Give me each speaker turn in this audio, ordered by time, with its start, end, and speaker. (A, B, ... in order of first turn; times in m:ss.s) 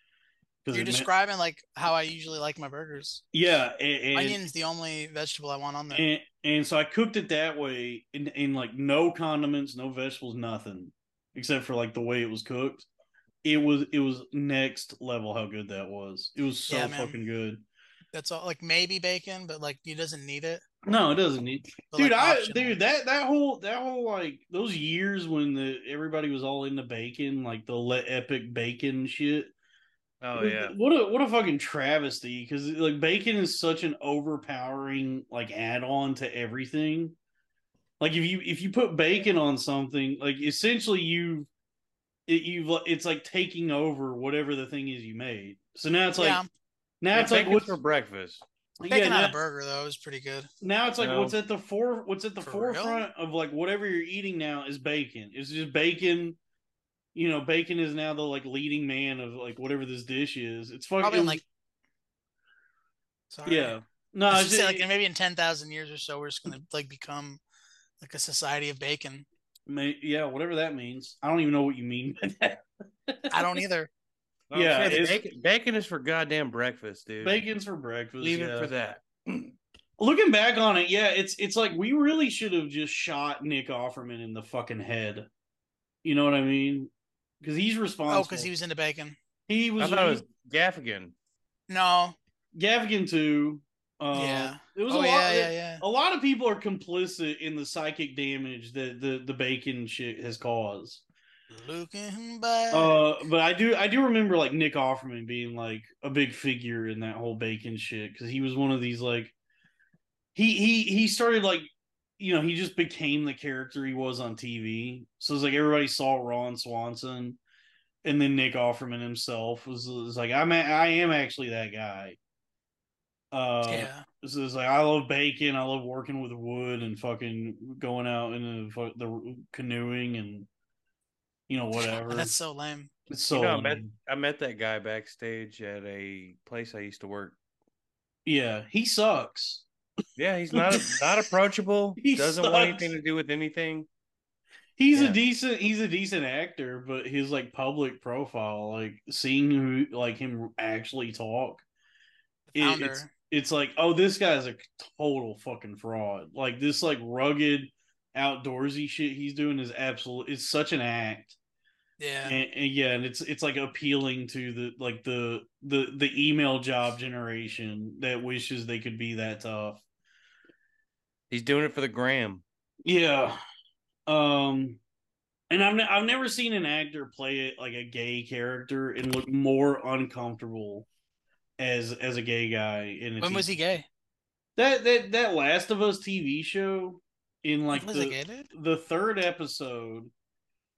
0:00.6-0:01.1 A
0:00.7-0:03.2 B
0:03.3-0:04.4 A
0:04.1-0:06.0 B
0:05.9-0:12.9 A
0:13.4-0:17.6 A
0:16.7-0:17.2 B
0:18.1-0:20.6 B
0:20.9-0:29.5 A
0:21.9-0:22.8 B
0:30.2-0:30.7 C
0:30.4-0:37.2 A
0:38.0-0:41.5 A
0:42.3-0:46.4 A
0:46.2-0:46.5 B
0:47.0-0:47.8 A
0:47.1-0:48.4 C
0:48.8-0:49.4 A
0:48.9-0:50.5 B
0:50.6-0:56.4 A
0:51.0-0:51.4 C
0:52.4-0:53.1 B
0:57.2-1:01.4 A
1:01.0-1:01.4 B
1:03.3-1:03.7 B
1:03.4-1:04.9 A
1:04.3-1:07.4 B
1:08.0-1:09.3 B
1:09.7-1:13.6 A
1:13.3-1:13.9 B
1:14.5-1:17.4 C
1:14.5-1:15.2 A
1:17.2-1:18.7 A
1:18.2-1:19.6 C
1:20.0-1:25.3 A
1:26.0-1:28.5 A
1:28.1-1:29.2 B
1:29.5-1:30.2 A
1:29.8-1:31.1 C
1:31.7-1:32.2 B
1:32.5-1:41.0 A
1:34.1-1:35.8 B
1:41.5-1:43.0 B
1:42.7-1:49.3 A
1:50.4-1:57.4 A
1:58.0-2:02.2 A
2:03.3-2:10.5 A
2:03.6-2:04.1 B
2:11.5-2:12.3 A
2:12.0-2:12.9 B
2:13.1-2:13.9 A
2:13.3-2:17.4 C
2:18.3-2:19.7 A
2:20.2-2:23.9 C
2:20.5-2:21.0 A
2:22.0-2:22.9 A
2:24.8-2:31.6 A
2:32.5-2:33.1 B
2:32.6-2:41.4 A
2:42.0-2:42.4 B
2:42.2-2:49.8 A
2:51.3-2:52.4 C
2:52.8-2:53.4 A
2:54.1-2:54.8 A
2:55.5-3:00.9 A
3:01.6-3:03.5 A
3:03.2-3:03.9 B
3:04.6-3:10.1 A
3:07.7-3:08.5 B